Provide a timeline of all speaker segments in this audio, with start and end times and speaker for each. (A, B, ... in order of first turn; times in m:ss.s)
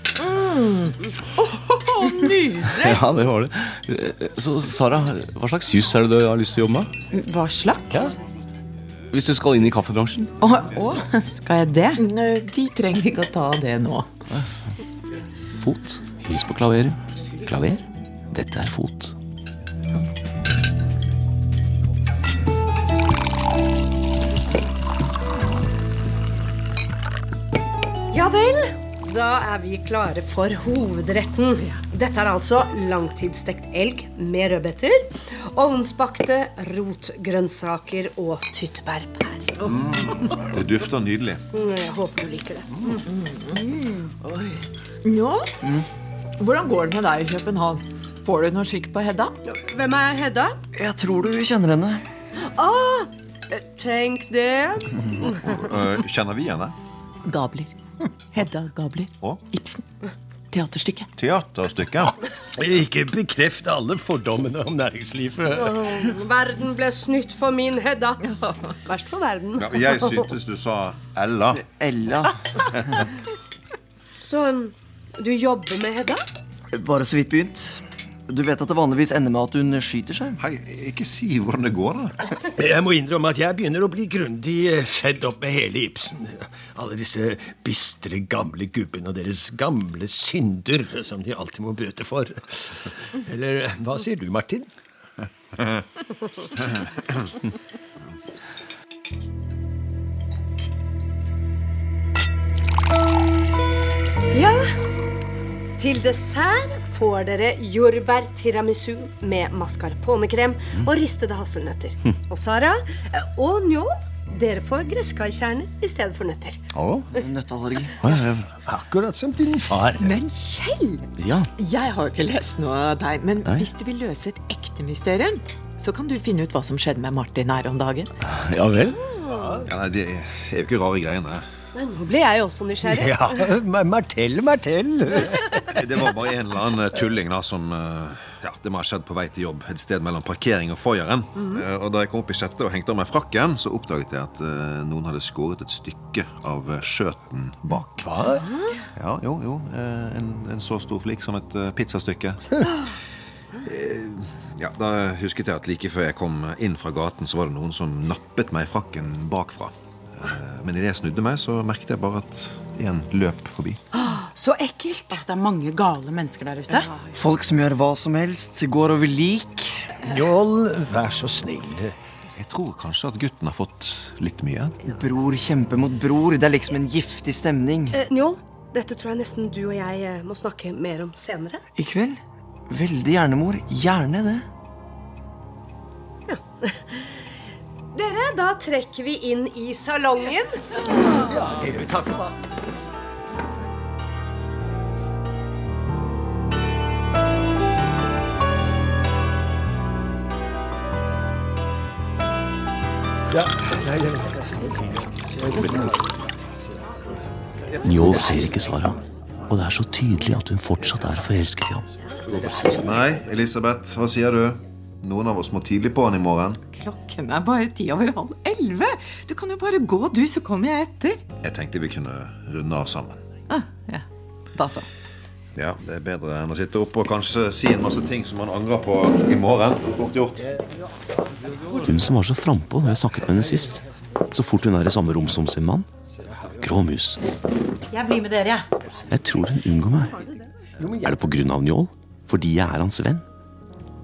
0:00.2-0:02.8 A
0:02.7-0:06.9 B
0:07.1-0:08.1 C
0:09.1-0:10.3 B
0:10.4-0:11.1 A
0:11.1-0:12.0 C
0:12.0-0:14.1 A
0:15.6-0:19.1 B
0:28.1-0:39.7 D
0:40.5-0:41.4 E
0:41.5-0:43.0 D
0:43.1-0:44.5 A
0:45.0-0:45.6 A
0:46.4-0:49.4 A
0:49.5-0:50.6 D
0:50.7-0:52.0 F
0:52.5-0:55.6 D
0:55.5-0:56.7 E
0:57.2-0:57.7 A
0:58.3-0:59.8 A
1:00.5-1:01.1 A
1:01.2-1:02.1 E
1:02.6-1:05.8 G
1:05.6-1:08.2 D
1:08.8-1:10.1 D
1:09.6-1:11.7 E
1:11.6-1:12.4 F
1:14.2-1:16.2 D
1:16.7-1:20.4 F
1:20.4-1:22.2 E
1:22.6-1:34.7 G
1:44.3-1:44.6 D
1:45.8-1:56.6 D
1:56.7-1:57.1 B
1:57.1-1:57.9 F
1:58.0-1:58.4 B
1:58.6-2:00.1 G
2:00.0-2:08.1 A
2:01.2-2:01.5 B
2:08.2-2:09.0 B
2:09.3-2:09.6 G
2:09.6-2:11.4 E
2:11.7-2:13.2 D
2:12.8-2:15.6 G
2:15.7-2:28.1 E
2:21.4-2:21.6 D
2:28.0-2:28.5 G
2:28.9-2:32.4 E
2:33.6-2:43.8 E
2:43.9-2:45.2 D
2:45.1-2:46.9 C
2:47.1-2:49.9 F
2:50.0-2:52.0 G
2:52.4-2:54.8 E
2:54.8-2:58.0 F
2:57.9-3:01.6 D
3:01.8-3:04.4 F
3:06.3-3:07.0 D
3:07.9-3:10.8 D
3:11.3-3:12.4 G
3:23.3-3:26.0 G
3:27.8-3:31.9 B
3:32.4-3:36.6 E
3:36.7-3:41.2 A
3:41.4-3:43.2 E
3:43.5-3:44.9 A
3:45.5-3:50.5 E
3:51.7-3:55.9 B
3:56.6-3:57.2 B
3:58.0-3:58.5 C
3:59.1-4:00.3 B
4:00.8-4:01.2 G
4:01.0-4:03.2 B